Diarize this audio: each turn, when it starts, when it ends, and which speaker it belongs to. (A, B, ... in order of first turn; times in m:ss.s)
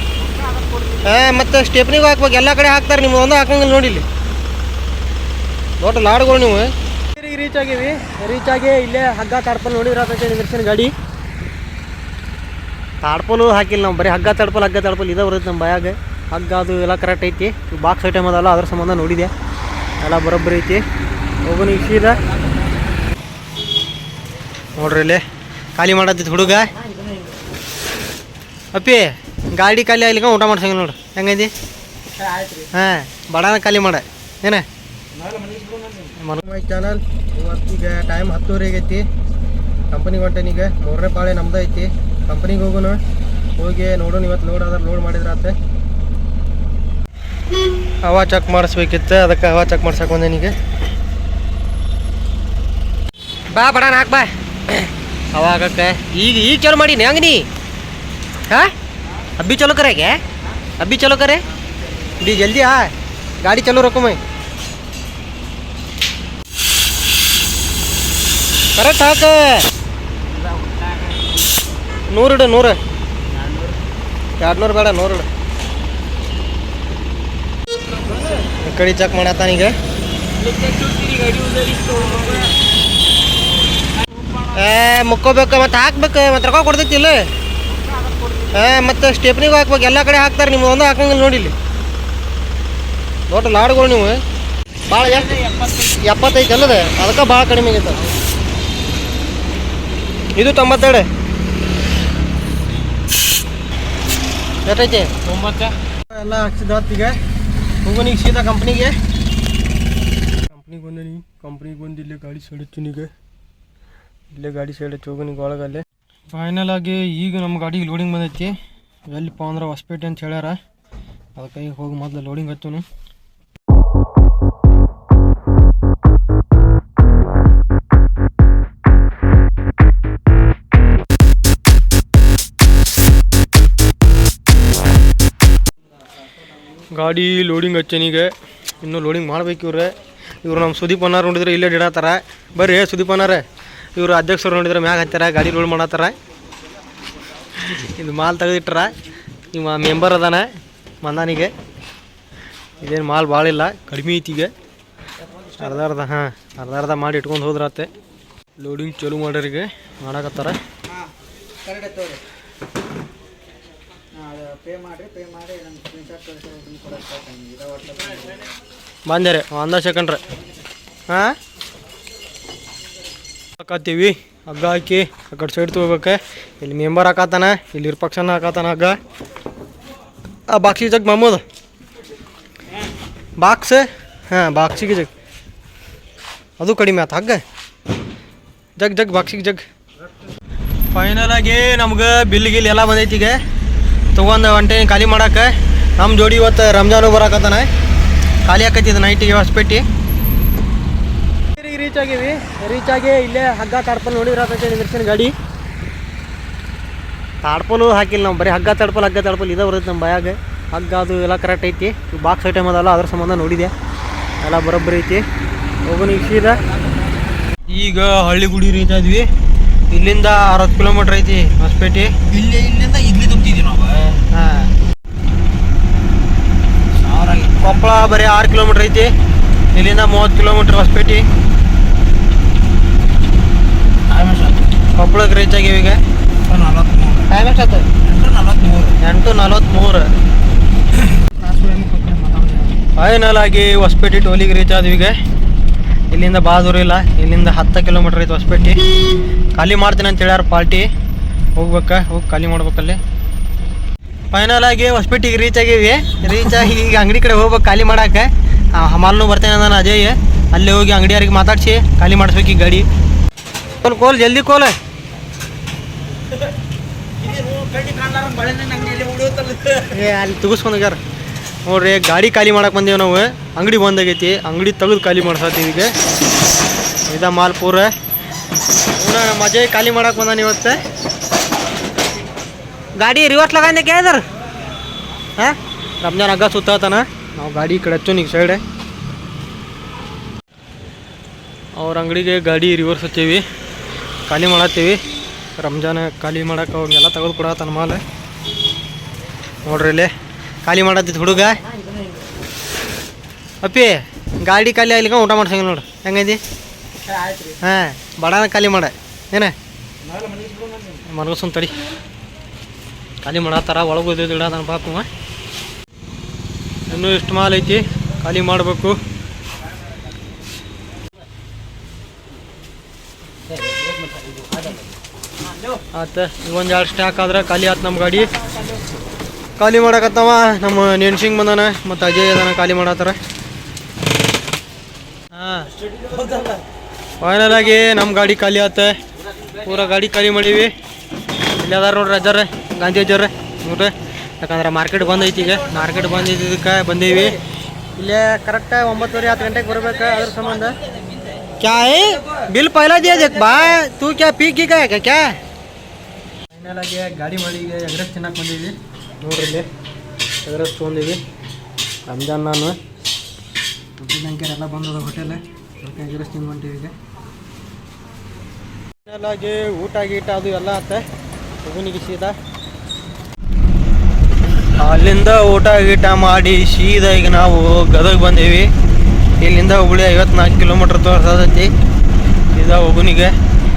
0:00.3-0:01.2 A
0:01.0-0:04.0 B
0:05.8-0:10.9 B
0:13.0-0:19.3 B
0:20.0-0:20.8 B
0:21.4-0:22.2 B
0:24.8-0:25.2 B
0:25.8-0:26.7 B
0:28.7-0:31.5 B
0:32.1-0:32.7 A
0:32.7-0:34.6 B
0:35.1-0:36.1 A
0:36.2-0:39.0 B
0:39.9-0:43.0 B
0:43.6-0:45.6 B
0:48.0-0:50.6 B
0:53.5-0:54.7 B
0:55.3-0:57.5 B
0:59.4-1:00.2 B
1:00.8-1:01.4 B
1:02.2-1:02.9 B
1:03.4-1:04.2 B
1:08.8-1:09.6 B
1:12.1-1:12.8 B
1:14.4-1:15.3 B
1:18.5-1:19.7 B
1:20.4-1:22.5 A
1:24.5-1:27.3 B
1:27.8-1:28.6 A
1:28.5-1:31.5 B
1:33.3-1:34.2 B
1:34.9-1:38.0 B
1:35.1-1:36.0 A
1:40.4-1:41.1 B
1:44.6-1:47.2 B
1:45.4-1:45.7 A
1:47.8-1:49.0 B
1:50.5-1:53.1 B
1:54.3-1:58.6 B
1:59.1-2:00.6 B
2:01.4-2:02.8 B
2:16.9-2:19.9 B
2:20.4-2:23.4 B
2:23.9-2:26.1 B
2:27.6-2:28.9 B
2:29.5-2:30.5 B
2:31.0-2:31.5 B
2:32.8-2:34.5 B
2:35.6-2:37.9 B
2:38.6-2:40.6 B
2:41.6-2:42.2 A
2:44.2-2:48.4 A
2:49.1-2:50.2 B
2:51.1-2:51.3 B
2:53.6-2:59.0 B
3:00.5-3:01.4 B
3:03.4-3:05.1 B
3:06.6-3:07.4 B
3:08.8-3:09.6 B
3:10.9-3:13.4 B
3:14.1-3:17.7 B
3:18.4-3:19.8 B
3:21.6-3:25.3 B
3:27.4-3:33.7 B
3:34.4-3:35.2 B
3:35.8-3:36.6 B
3:37.7-3:39.3 B
3:39.9-3:42.1 B
3:42.3-3:44.2 A
3:44.3-3:44.7 B
3:46.9-3:47.8 A
3:47.6-3:49.1 B
3:49.7-3:51.2 B
3:54.1-3:54.6 A
3:54.9-3:56.0 B
3:56.4-3:57.3 A
3:57.3-3:57.9 B
3:58.0-3:59.0 A
3:59.0-4:00.1 B
4:01.0-4:02.8 A
4:02.9-4:05.2 B
4:06.1-4:08.8 B
4:09.5-4:10.9 B
4:11.6-4:13.0 B
4:14.3-4:22.9 B
4:23.8-4:24.7 B
4:27.2-4:29.9 A
4:29.8-4:31.0 B
4:31.6-4:35.9 B
4:37.1-4:37.9 B
4:39.0-4:40.8 B
4:43.0-4:44.2 B
4:45.4-4:48.6 B
4:51.8-4:53.4 B
4:54.3-4:55.0 B
4:55.6-4:58.0 B
4:59.6-5:00.1 B
5:00.6-5:01.6 B
5:03.6-5:06.4 B
5:07.1-5:07.6 A
5:07.6-5:09.5 B
5:10.0-5:11.0 A
5:11.0-5:11.8 B
5:13.2-5:15.1 B
5:16.9-5:19.0 B
5:23.5-5:24.8 A
5:25.9-5:28.3 B
5:29.6-5:33.2 B
5:35.3-5:35.7 B
5:35.9-5:36.6 A
5:37.2-5:39.0 B
5:39.6-5:40.7 B
5:41.6-5:47.4 B
5:48.0-5:50.8 B
5:51.6-5:55.3 B
5:56.5-5:59.7 B
6:00.4-6:01.2 B
6:02.0-6:02.8 B
6:04.0-6:06.9 B
6:09.0-6:11.0 B
6:11.6-6:12.4 B
6:14.8-6:18.7 B
6:19.4-6:21.7 B
6:22.5-6:23.3 B